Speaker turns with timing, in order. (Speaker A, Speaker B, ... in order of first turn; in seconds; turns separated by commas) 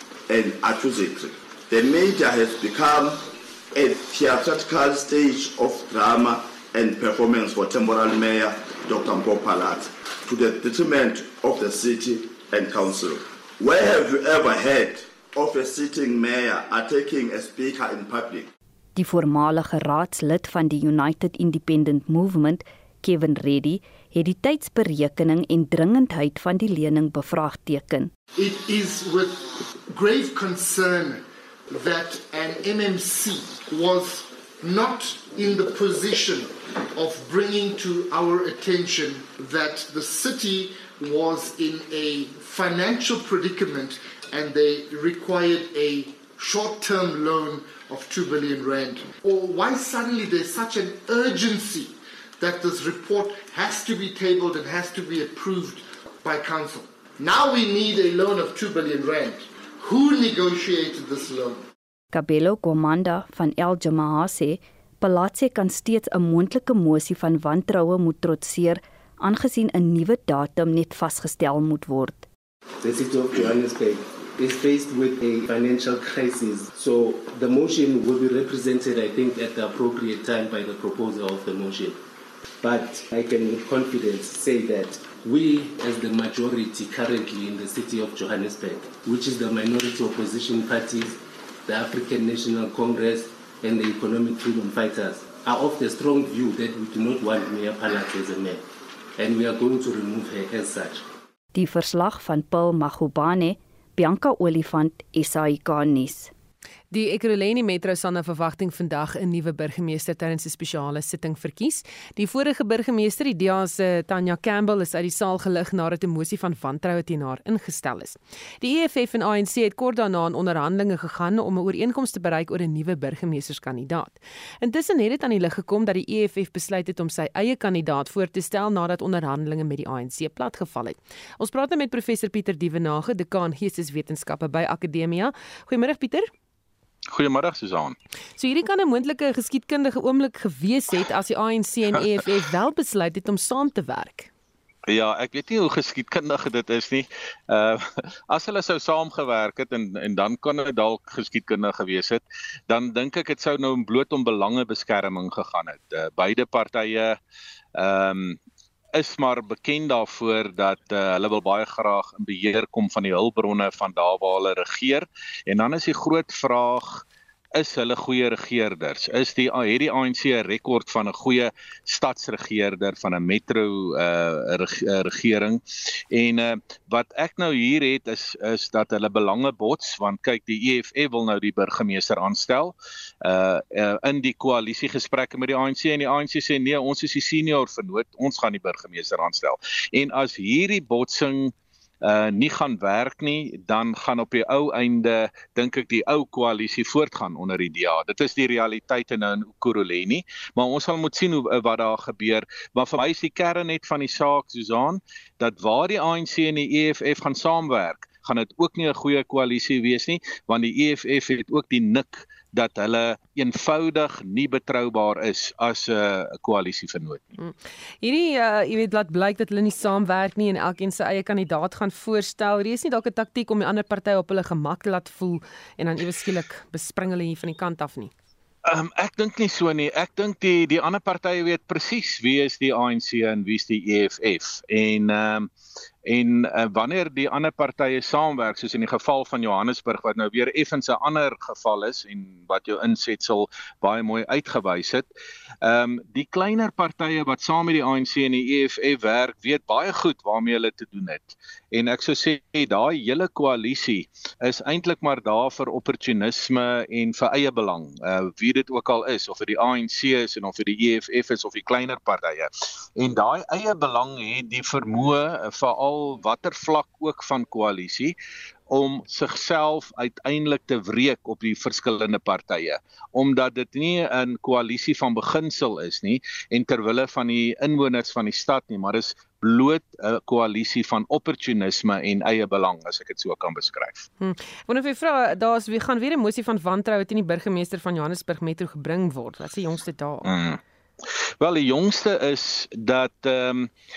Speaker A: 0.3-18.5, Speaker B: 18.9-28.1, Speaker C: 28.4-61.6, Speaker B: 62.1-72.3, Speaker D: 72.8-82.0, Speaker D: 82.6-98.6, Speaker D: 99.2-101.1, Speaker B: 101.5-106.3, Speaker E: 106.9-136.3, Speaker F: 137.1-138.0, Speaker E: 138.4-144.3, Speaker F: 144.9-157.2, Speaker F: 157.8-158.4, Speaker F: 158.9-217.2, Speaker E: 217.4-228.1, Speaker F: 228.7-235.5, Speaker F: 236.1-245.1, Speaker F: 245.6-268.1, Speaker F: 268.7-284.1, Speaker E: 284.2-290.3, Speaker F: 290.2-290.6, Speaker F: 291.4-293.7